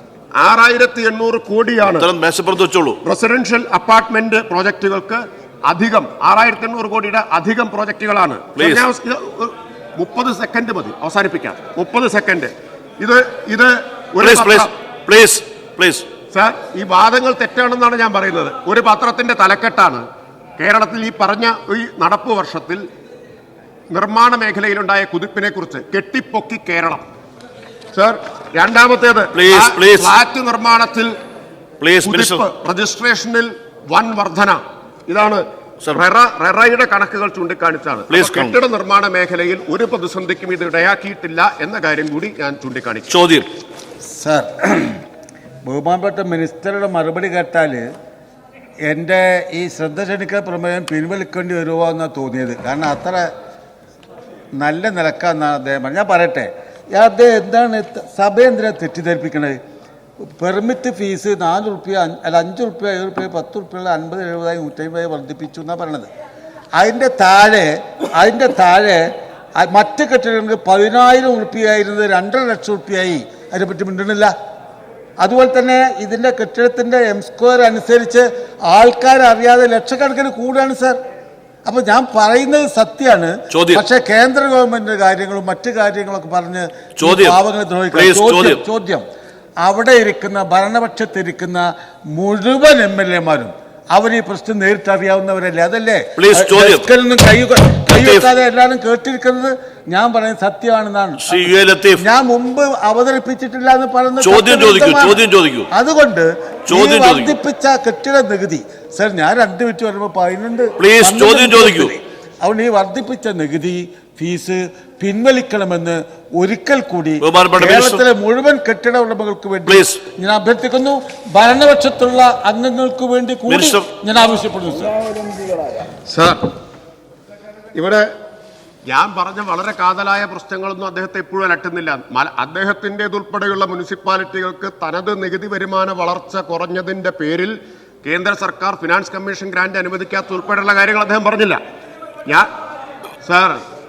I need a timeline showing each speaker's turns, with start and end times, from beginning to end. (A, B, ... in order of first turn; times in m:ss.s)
0:00.4-0:02.1 A
0:01.9-0:03.0 B
0:03.0-0:14.7 A
0:08.6-0:08.8 B
0:14.2-0:16.1 B
0:16.3-0:20.0 A
0:20.6-0:22.8 A
0:23.9-0:27.0 A
0:27.9-0:31.1 A
0:29.3-0:30.2 B
0:31.8-0:32.4 B
0:32.0-0:43.1 A
0:38.1-0:38.6 B
0:43.1-0:43.5 B
0:44.1-0:45.0 C
0:45.6-0:47.8 C
0:48.9-0:53.3 C
0:54.6-0:59.6 C
1:00.2-1:06.1 C
1:06.8-1:14.3 C
1:15.2-1:21.0 C
1:21.6-1:29.0 C
1:23.5-1:23.8 B
1:27.0-1:27.4 B
1:27.9-1:28.6 B
1:29.6-2:05.0 C
1:36.2-1:36.9 B
1:37.9-1:38.3 B
1:41.2-1:42.0 B
1:44.2-1:45.7 B
1:46.7-1:47.4 B
1:50.8-1:51.9 B
1:57.2-1:58.0 B
1:59.6-2:00.0 B
2:03.5-2:03.9 B
2:06.0-2:06.5 A
2:07.7-2:08.1 A
2:08.8-2:21.6 A
2:23.2-2:23.6 A